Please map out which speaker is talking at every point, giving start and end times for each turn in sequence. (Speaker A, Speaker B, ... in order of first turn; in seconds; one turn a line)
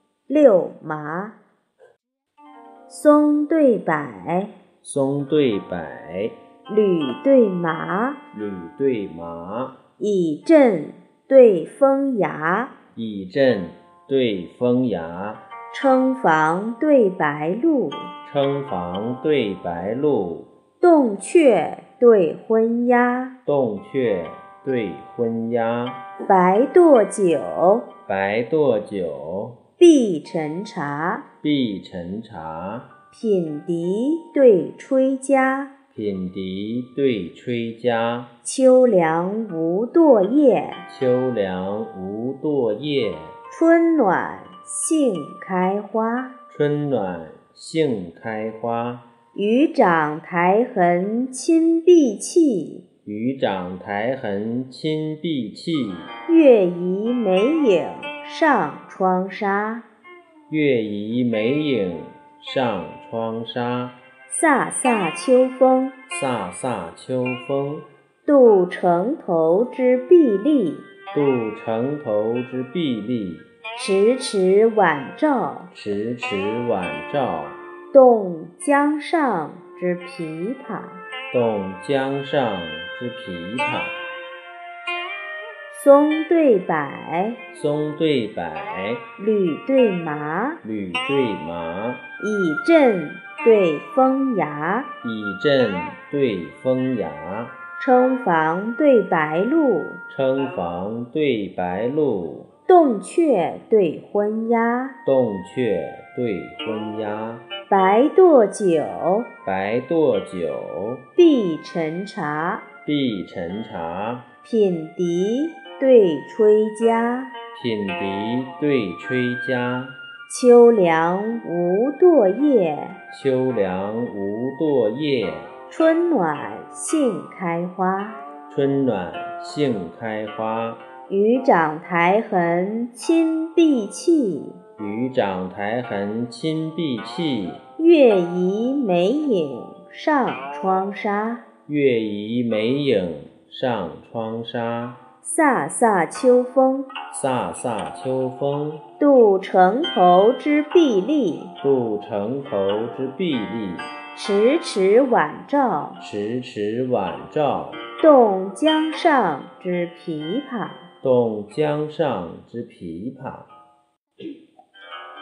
Speaker A: 0.3-1.4
Speaker A: 2.9-4.5
Speaker B: 4.8-6.4
Speaker A: 6.7-8.2
Speaker B: 8.3-9.8
Speaker A: 10.0-12.7
Speaker B: 12.9-15.4
Speaker A: 15.7-18.1
Speaker B: 18.2-20.5
Speaker A: 20.8-23.3
Speaker B: 23.4-26.0
Speaker A: 26.2-27.9
Speaker B: 28.1-29.6
Speaker A: 29.8-31.2
Speaker B: 31.4-32.9
Speaker A: 33.1-35.7
Speaker B: 35.9-38.3
Speaker A: 38.4-40.8
Speaker B: 40.9-43.4
Speaker A: 43.5-46.3
Speaker B: 46.5-49.0
Speaker A: 49.3-52.8
Speaker B: 53.0-56.1
Speaker A: 56.2-59.9
Speaker B: 60.5-64.0
Speaker A: 64.3-66.0
Speaker B: 66.1-67.9
Speaker A: 68.2-70.9
Speaker B: 71.1-73.5
Speaker A: 73.8-75.7
Speaker B: 75.7-77.6
Speaker A: 77.9-81.0
Speaker B: 81.3-84.0
Speaker A: 85.7-87.4
Speaker B: 87.5-89.0
Speaker A: 89.2-90.6
Speaker B: 90.6-92.0
Speaker A: 92.2-94.9
Speaker B: 95.0-97.5
Speaker A: 97.8-100.0
Speaker B: 100.1-102.5
Speaker A: 102.7-105.0
Speaker B: 105.0-107.4
Speaker A: 107.7-109.3
Speaker B: 109.5-111.0
Speaker A: 111.2-112.6
Speaker B: 112.8-114.2
Speaker A: 114.4-117.3
Speaker B: 117.5-120.0
Speaker A: 120.3-123.0
Speaker B: 123.1-125.5
Speaker A: 125.7-128.2
Speaker B: 128.5-130.8
Speaker A: 131.1-134.6
Speaker B: 134.8-137.6
Speaker A: 137.8-141.4
Speaker B: 141.7-145.0
Speaker A: 145.2-146.9
Speaker B: 147.1-148.8
Speaker A: 149.0-151.5
Speaker B: 151.6-153.9
Speaker A: 154.1-156.0
Speaker B: 156.0-157.8
Speaker A: 158.0-160.9
Speaker B: 161.0-163.5